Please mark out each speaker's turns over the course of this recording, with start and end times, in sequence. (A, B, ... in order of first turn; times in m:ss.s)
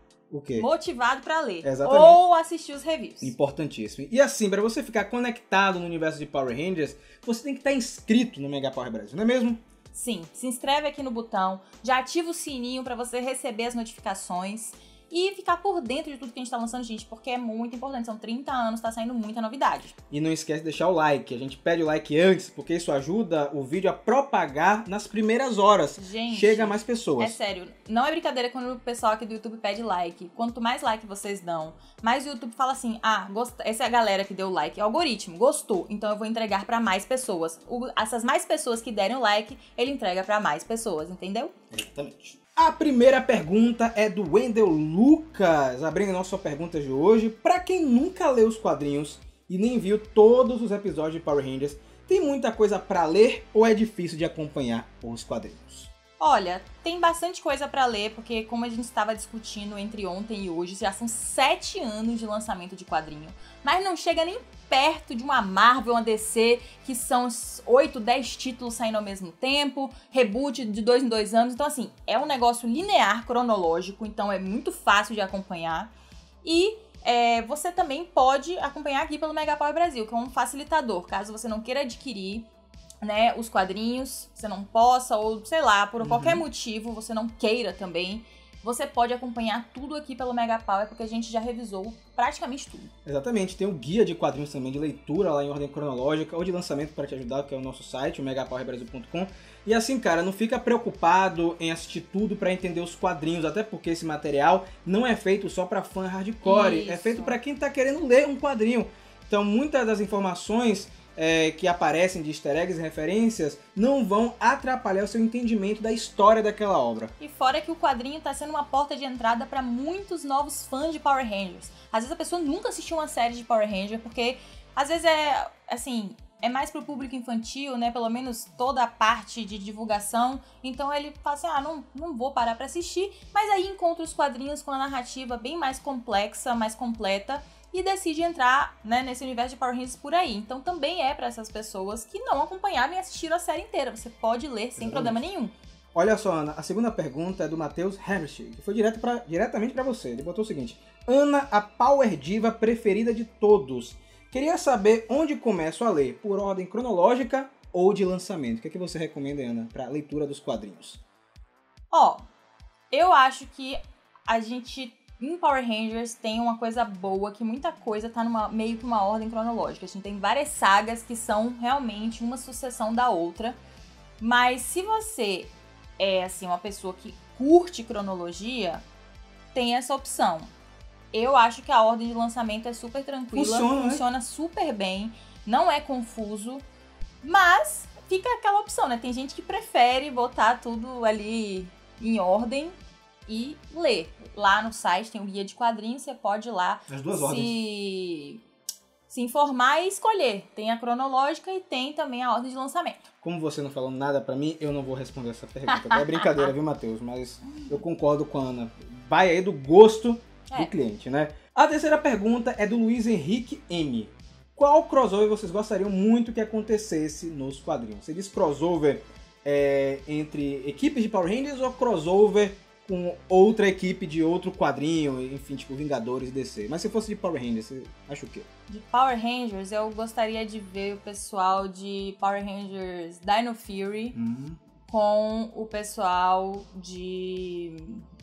0:00.3-0:00.7 A
0:00.6-0:03.3 B
0:01.6-0:02.2 A
0:03.2-0:09.6 A
0:09.9-0:19.9 B
0:20.1-0:27.4 A
0:26.0-0:41.5 B
0:41.7-0:55.9 A
0:56.2-1:15.9 B
1:16.4-1:22.5 B
1:23.0-1:32.9 B
1:26.0-1:26.4 A
1:33.0-1:57.1 A
1:46.4-1:47.4 B
1:57.2-2:25.5 B
2:24.8-2:25.2 A
2:25.9-2:41.0 A
2:41.9-2:42.2 B
2:42.9-2:53.6 B
2:54.2-2:58.8 B
2:59.5-3:00.5 B
3:01.1-3:06.6 B
3:03.3-3:04.0 A
3:07.2-3:12.8 B
3:13.3-3:18.4 B
3:16.9-3:17.6 A
3:19.1-3:23.0 B
3:23.2-3:48.5 A
3:25.7-3:26.4 B
3:48.7-3:54.2 B
3:54.1-3:54.6 A
3:54.9-3:58.0 B